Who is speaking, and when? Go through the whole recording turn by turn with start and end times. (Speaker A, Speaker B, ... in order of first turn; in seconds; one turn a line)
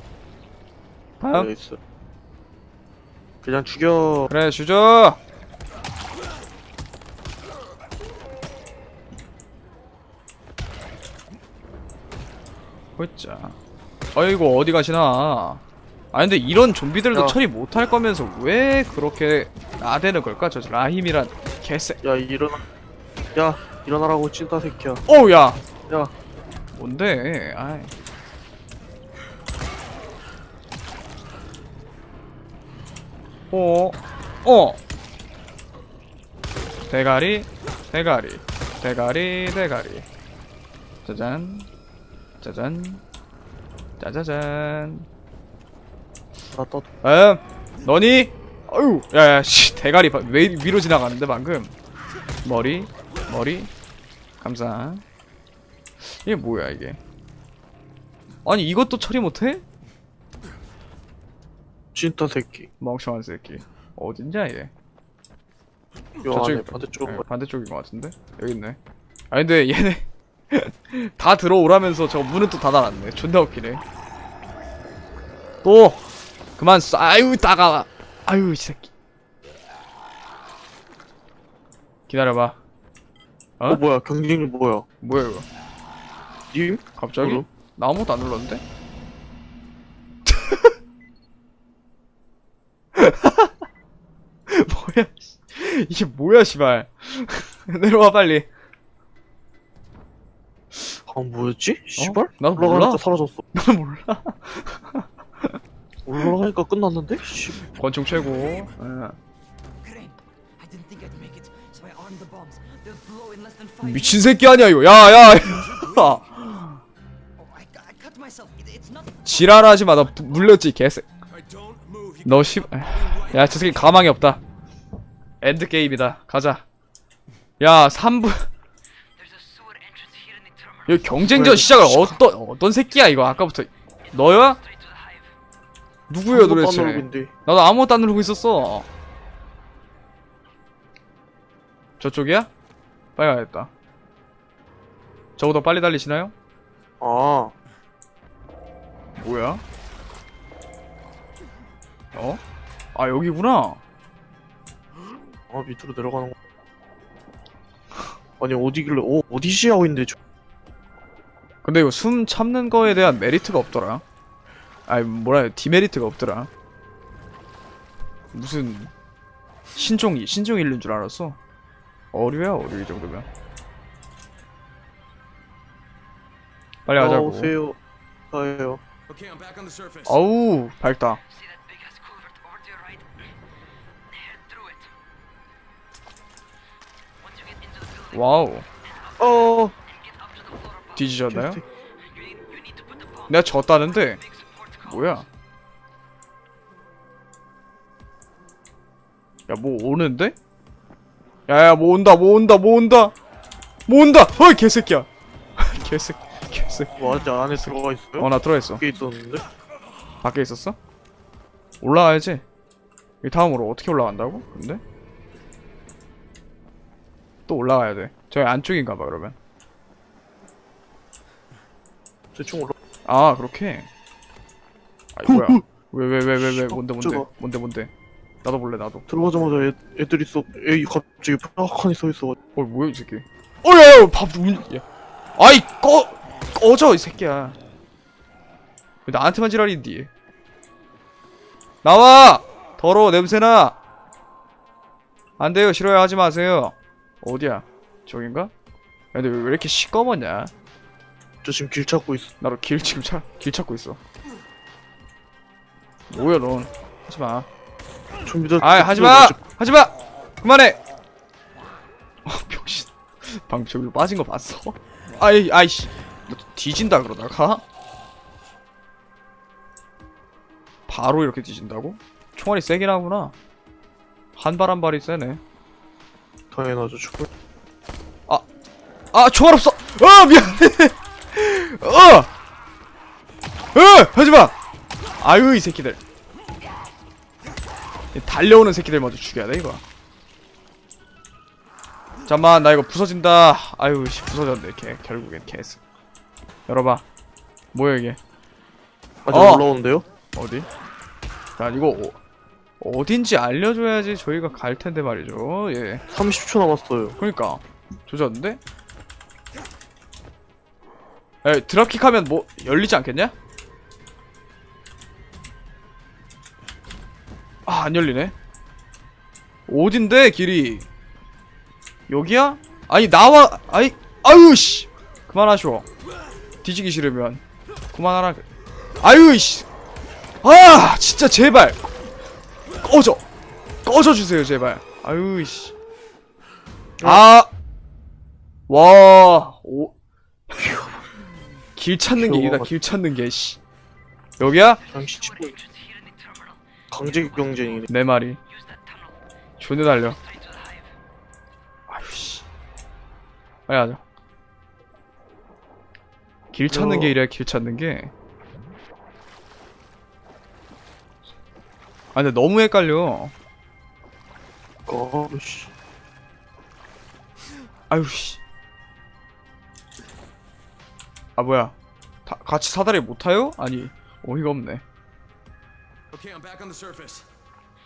Speaker A: 1.2-1.5
Speaker B: 1.3-1.8
Speaker B: 3.4-4.3
Speaker A: 4.3-5.2
Speaker A: 13.0-13.6
Speaker A: 14.1-15.6
Speaker A: 16.1-22.0
Speaker B: 22.0-22.6
Speaker B: 23.3-25.0
Speaker A: 25.1-25.6
Speaker B: 25.9-26.1
Speaker A: 26.7-27.9
Speaker A: 33.5-34.8
Speaker A: 36.9-40.0
Speaker A: 41.0-41.7
Speaker A: 42.4-43.0
Speaker A: 44.0-45.1
Speaker B: 46.5-46.9
Speaker A: 47.0-51.7
Speaker A: 52.4-53.7
Speaker A: 54.4-55.0
Speaker A: 56.0-57.0
Speaker A: 58.4-59.6
Speaker B: 61.9-62.7
Speaker A: 62.8-64.7
Speaker B: 66.2-67.2
Speaker A: 66.3-68.8
Speaker A: 69.3-73.8
Speaker A: 75.6-76.0
Speaker A: 76.6-78.9
Speaker A: 82.1-82.6
Speaker B: 83.7-84.8
Speaker A: 85.0-85.5
Speaker B: 86.5-87.5
Speaker A: 87.0-88.6
Speaker A: 90.2-90.7
Speaker A: 92.9-93.6
Speaker A: 94.5-98.5
Speaker B: 101.1-103.4
Speaker A: 102.0-103.0
Speaker A: 103.5-105.6
Speaker B: 106.0-107.7
Speaker A: 107.7-109.2
Speaker C: 108.2-108.7
Speaker C: 109.8-114.4
Speaker A: 113.8-116.8
Speaker C: 115.3-116.1
Speaker C: 117.4-119.3
Speaker A: 119.2-121.1
Speaker D: 121.3-122.3
Speaker C: 122.0-123.9
Speaker A: 122.2-124.4
Speaker D: 123.0-123.3
Speaker A: 125.4-126.6
Speaker A: 127.6-128.5
Speaker C: 129.2-131.1
Speaker A: 130.9-134.6
Speaker B: 131.2-132.2
Speaker C: 134.6-135.2
Speaker A: 136.1-138.8
Speaker B: 136.3-137.3
Speaker A: 142.0-142.5
Speaker A: 143.2-143.7
Speaker A: 145.4-146.3
Speaker B: 147.0-147.5
Speaker A: 149.2-149.6
Speaker A: 152.1-152.4
Speaker A: 152.9-153.8
Speaker B: 155.5-156.3
Speaker B: 158.4-160.2
Speaker A: 161.6-164.0
Speaker A: 164.9-166.5
Speaker A: 168.3-168.9
Speaker A: 169.8-171.4
Speaker A: 172.1-173.3
Speaker A: 176.8-177.5
Speaker B: 176.9-177.8
Speaker B: 178.3-178.8
Speaker D: 179.1-180.1
Speaker A: 180.1-181.2
Speaker C: 181.3-183.1
Speaker C: 184.1-184.9
Speaker C: 187.2-188.2
Speaker A: 188.1-188.7
Speaker B: 189.2-189.7
Speaker C: 189.9-191.0
Speaker A: 190.9-191.6
Speaker B: 191.3-191.6
Speaker C: 192.0-193.3
Speaker A: 193.3-194.2
Speaker C: 194.2-195.2
Speaker A: 194.8-195.2
Speaker A: 199.5-200.3
Speaker A: 201.5-203.1
Speaker A: 203.9-207.0
Speaker B: 207.0-209.4
Speaker A: 207.5-208.8
Speaker A: 210.2-210.8
Speaker A: 211.8-212.4
Speaker A: 213.2-214.8
Speaker A: 217.5-219.3
Speaker B: 222.3-222.7
Speaker A: 223.1-223.9
Speaker A: 225.1-227.9
Speaker B: 225.3-225.6
Speaker B: 226.4-227.3
Speaker A: 228.4-229.1
Speaker B: 229.1-232.3
Speaker A: 232.5-234.8
Speaker A: 235.4-237.6
Speaker A: 239.1-240.1
Speaker A: 241.8-243.8
Speaker A: 245.4-248.5
Speaker A: 249.1-250.5
Speaker B: 251.4-252.3
Speaker A: 252.4-254.0
Speaker A: 256.1-257.5
Speaker B: 258.2-259.4
Speaker A: 258.6-260.8
Speaker A: 262.2-267.6
Speaker A: 270.9-273.3
Speaker A: 274.4-275.4
Speaker B: 276.5-277.3
Speaker A: 279.1-282.3
Speaker A: 283.7-284.5
Speaker A: 285.2-286.0
Speaker A: 288.1-289.8
Speaker A: 292.3-295.8
Speaker A: 296.7-297.0
Speaker A: 297.7-298.2
Speaker B: 299.2-300.0
Speaker A: 299.3-299.6
Speaker A: 300.3-300.7
Speaker A: 301.6-302.2
Speaker A: 302.8-306.0
Speaker B: 306.1-307.1
Speaker A: 307.2-308.6
Speaker A: 311.4-313.3
Speaker A: 317.6-318.3
Speaker A: 319.7-320.9
Speaker A: 322.1-325.9
Speaker A: 326.6-328.4
Speaker A: 329.0-329.6
Speaker A: 330.4-331.8
Speaker A: 332.8-333.2
Speaker A: 333.8-335.7
Speaker A: 337.0-337.5
Speaker A: 338.7-339.9
Speaker A: 340.5-340.8
Speaker A: 341.8-343.6
Speaker B: 342.1-342.7
Speaker A: 344.4-344.8
Speaker B: 344.9-345.6
Speaker C: 345.4-346.6
Speaker B: 346.9-347.9
Speaker A: 347.9-348.4
Speaker C: 348.6-349.1
Speaker A: 349.6-350.2
Speaker C: 350.2-350.9
Speaker A: 351.9-352.4
Speaker A: 353.7-354.0
Speaker A: 356.5-358.1
Speaker B: 356.7-357.1
Speaker A: 362.1-363.3
Speaker B: 364.9-365.7
Speaker A: 367.9-368.4
Speaker A: 371.4-371.7
Speaker A: 372.2-374.8
Speaker D: 376.1-377.2